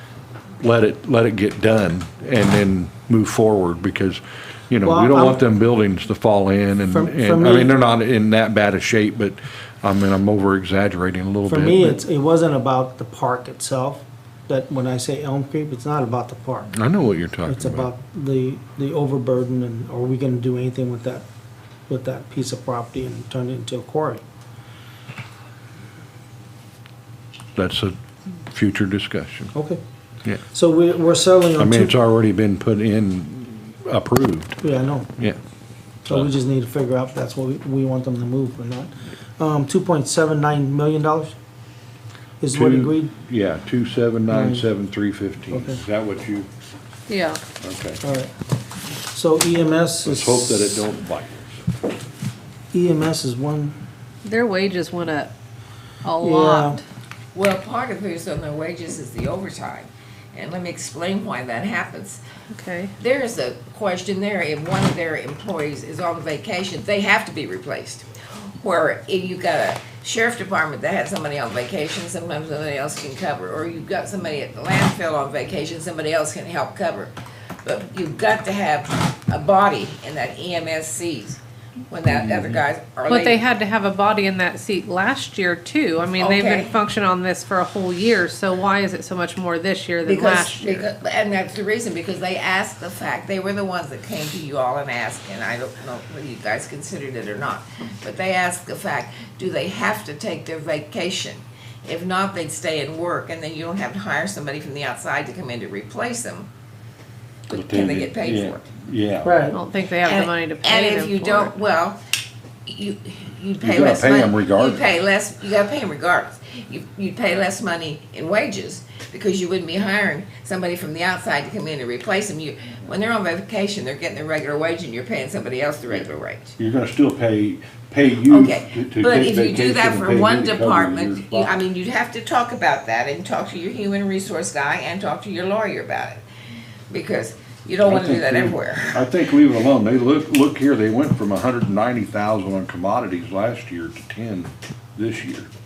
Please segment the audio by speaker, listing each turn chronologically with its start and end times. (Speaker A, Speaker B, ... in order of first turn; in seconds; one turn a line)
Speaker A: 0.6-12.0
Speaker B: 4.8-5.4
Speaker B: 6.9-7.8
Speaker B: 11.4-16.7
Speaker A: 16.7-17.9
Speaker B: 17.4-21.2
Speaker B: 21.9-24.2
Speaker A: 27.5-27.9
Speaker A: 28.5-29.5
Speaker B: 29.5-29.8
Speaker B: 30.4-31.9
Speaker A: 31.6-34.6
Speaker B: 34.6-35.1
Speaker B: 36.1-41.3
Speaker B: 42.4-43.1
Speaker A: 42.5-46.5
Speaker B: 44.3-44.6
Speaker B: 45.5-45.8
Speaker C: 47.1-47.4
Speaker A: 47.6-48.0
Speaker B: 48.0-48.3
Speaker B: 49.1-50.8
Speaker A: 50.0-51.6
Speaker B: 52.7-53.8
Speaker C: 54.2-55.3
Speaker C: 56.0-56.8
Speaker B: 56.2-56.8
Speaker D: 57.3-62.2
Speaker C: 62.5-62.9
Speaker D: 63.0-83.4
Speaker A: 82.1-82.5
Speaker C: 83.1-90.9
Speaker D: 86.2-86.8
Speaker D: 90.0-106.5
Speaker D: 107.5-108.7
Speaker A: 107.5-109.4
Speaker B: 109.2-109.6
Speaker C: 109.5-111.5
Speaker D: 110.0-112.0
Speaker D: 112.7-126.6
Speaker A: 113.6-114.8
Speaker A: 126.6-131.6
Speaker D: 128.2-136.2
Speaker D: 136.9-139.1
Speaker A: 137.8-145.5